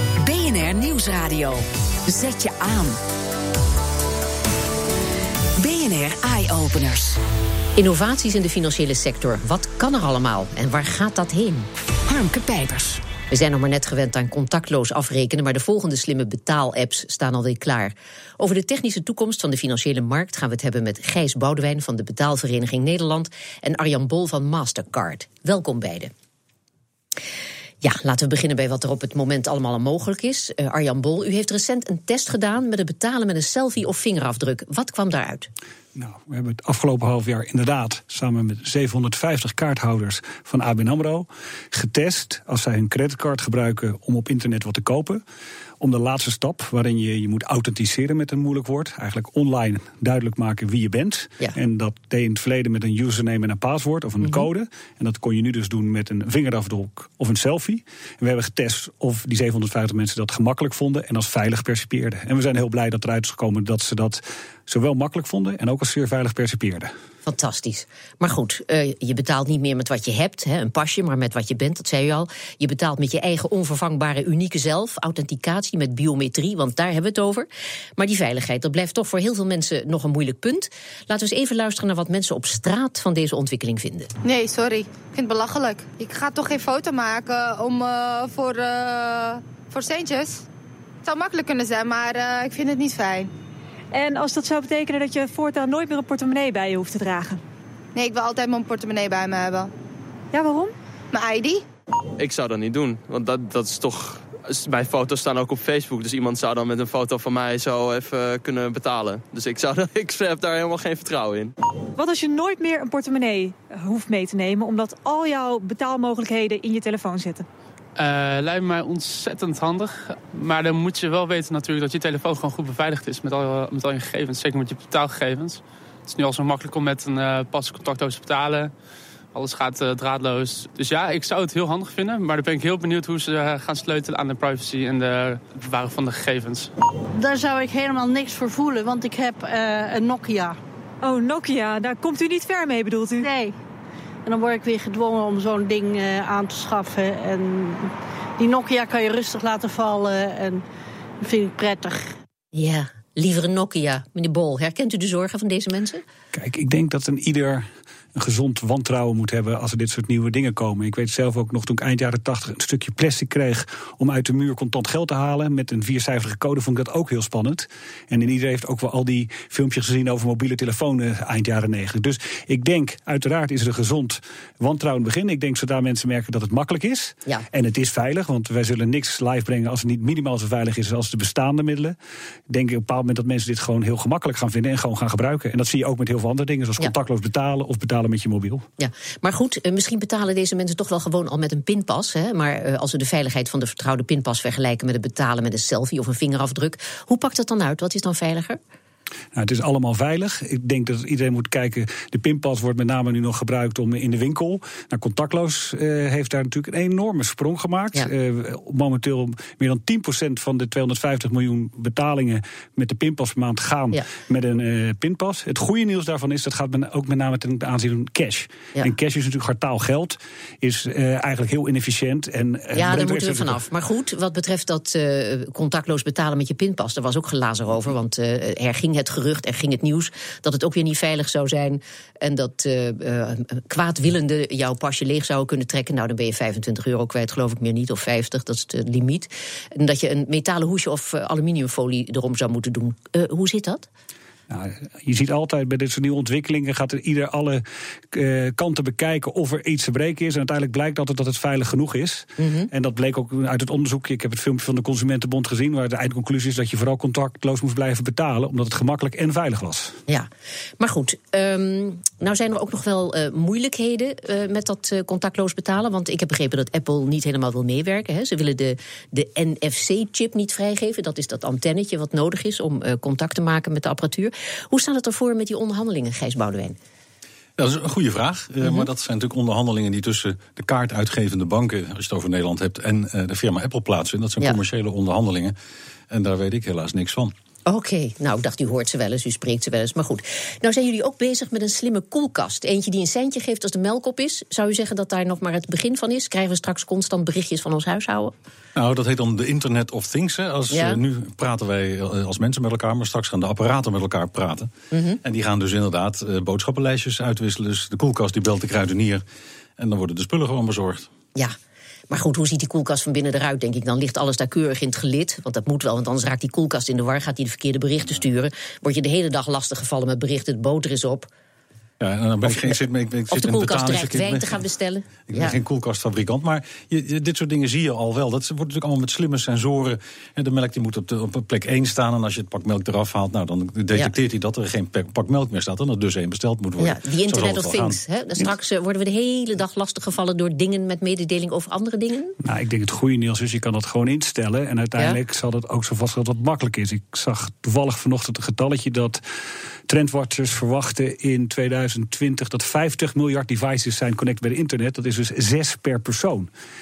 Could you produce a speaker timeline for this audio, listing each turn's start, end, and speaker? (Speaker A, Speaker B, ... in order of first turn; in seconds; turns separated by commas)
Speaker A: 0.2-3.0, Speaker A: 5.6-7.2, Speaker B: 7.8-11.7, Speaker A: 12.1-13.0, Speaker B: 13.3-26.1, Speaker B: 27.8-35.5, Speaker C: 36.0-45.2, Speaker C: 45.8-66.9, Speaker B: 67.2-84.1, Speaker D: 84.2-90.4, Speaker D: 91.0-93.3, Speaker E: 93.9-97.4, Speaker D: 98.0-99.7, Speaker E: 100.3-100.7, Speaker D: 101.1-101.6, Speaker F: 102.2-111.5, Speaker E: 112.0-117.5, Speaker G: 118.0-128.7, Speaker G: 129.3-136.7, Speaker H: 137.1-140.6, Speaker E: 141.0-143.3, Speaker H: 143.2-143.5, Speaker H: 144.2-147.9, Speaker H: 148.4-150.6, Speaker H: 151.2-152.1, Speaker B: 152.5-156.0, Speaker C: 156.3-182.0, Speaker C: 182.5-188.7, Speaker B: 188.8-198.6, Speaker C: 199.3-223.6, Speaker B: 222.7-243.9, Speaker C: 244.5-260.0, Speaker B: 252.4-252.7, Speaker B: 260.8-276.8, Speaker I: 277.6-285.6, Speaker B: 278.6-278.9, Speaker I: 286.1-287.3, Speaker B: 287.7-298.3, Speaker I: 298.8-304.7, Speaker B: 300.7-301.0, Speaker B: 304.9-305.2, Speaker I: 305.2-309.2, Speaker I: 309.8-311.1, Speaker B: 312.1-321.3, Speaker I: 322.0-324.6, Speaker B: 323.3-325.6, Speaker I: 325.3-338.0, Speaker B: 336.8-342.4, Speaker C: 342.4-349.2, Speaker C: 349.9-356.5